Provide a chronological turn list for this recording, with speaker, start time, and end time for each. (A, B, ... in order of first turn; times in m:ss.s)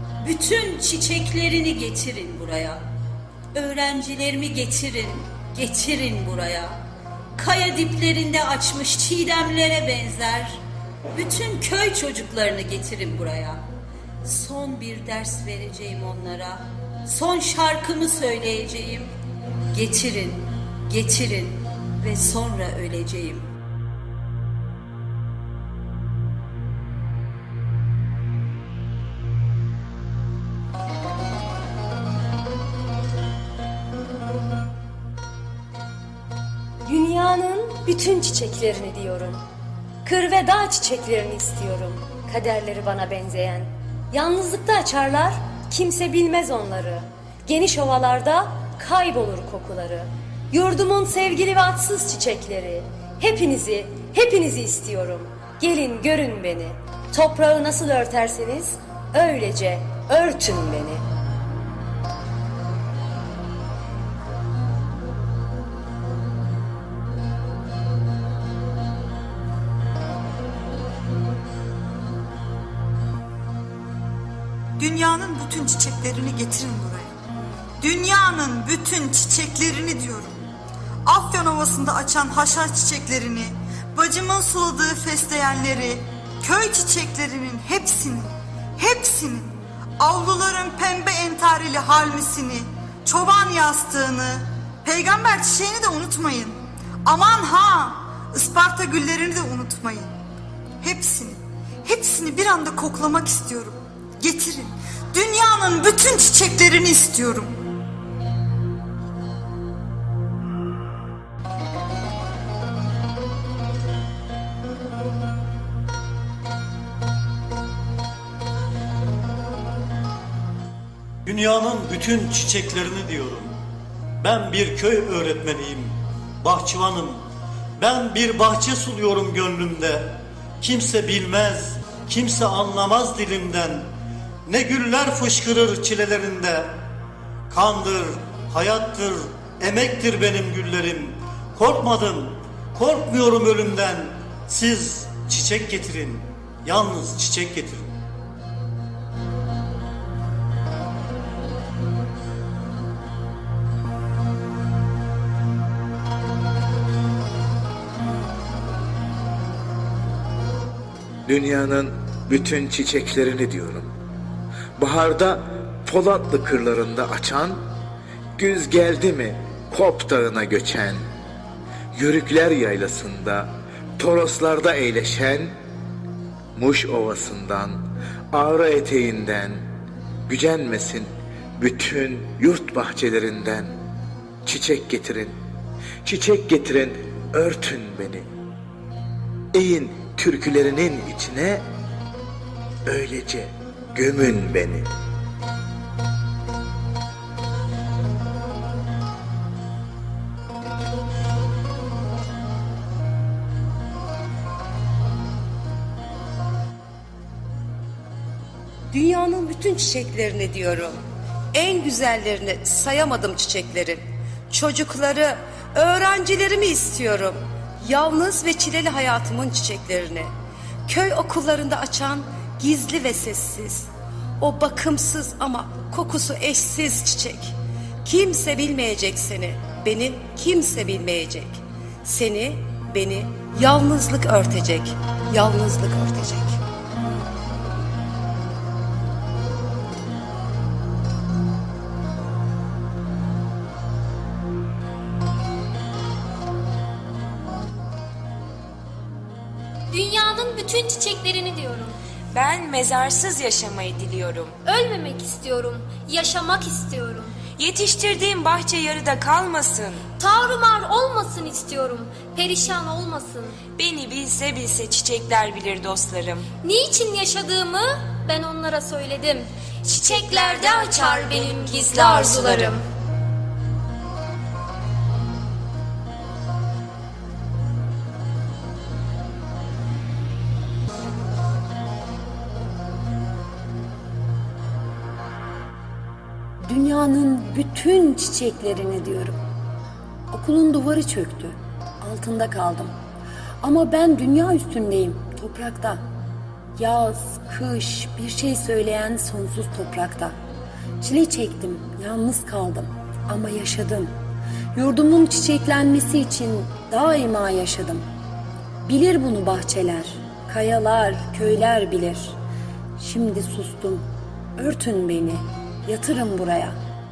0:00.2-0:02.8 A
0:03.5-0:06.8 A
0:07.4-0:10.6 A
0:11.1-0:13.6 A
0:14.2-0:19.1 A
0:19.7-0:23.5 A
0:36.8-0:39.4 B
0:40.0-1:01.0 B
1:14.8-1:17.1 C
1:17.8-1:20.4 C
1:21.0-1:40.1 C
1:40.8-1:47.5 C
2:01.2-2:03.6 D
2:04.2-2:07.2 D
2:07.8-2:13.9 D
2:14.4-2:16.8 D
2:17.5-2:27.9 D
2:41.2-2:43.9 E
2:44.8-2:47.6 E
2:48.4-2:51.0 E
2:51.9-2:55.5 E
2:56.6-2:57.8 E
2:58.3-2:59.6 E
3:00.3-3:03.7 E
3:04.4-3:05.3 E
3:06.0-3:08.2 E
3:09.5-3:11.6 E
3:12.8-3:14.8 E
3:28.9-3:31.0 F
3:31.5-3:40.3 F
3:40.9-3:56.6 F
4:09.9-4:12.0 G
4:12.3-4:14.6 H
4:14.6-4:17.4 G
4:17.6-4:20.0 H
4:20.2-4:23.6 G
4:23.7-4:26.5 H
4:26.6-4:29.5 G
4:29.9-4:32.7 H
4:30.0-4:32.8 G
4:46.6-4:49.4 I
4:50.3-4:52.9 I
4:53.6-4:56.0 I
4:56.8-5:00.4 I
5:01.0-5:04.1 I
5:04.7-5:08.0 I
5:08.8-5:12.4 I
5:13.0-5:14.0 I
5:14.6-5:16.8 I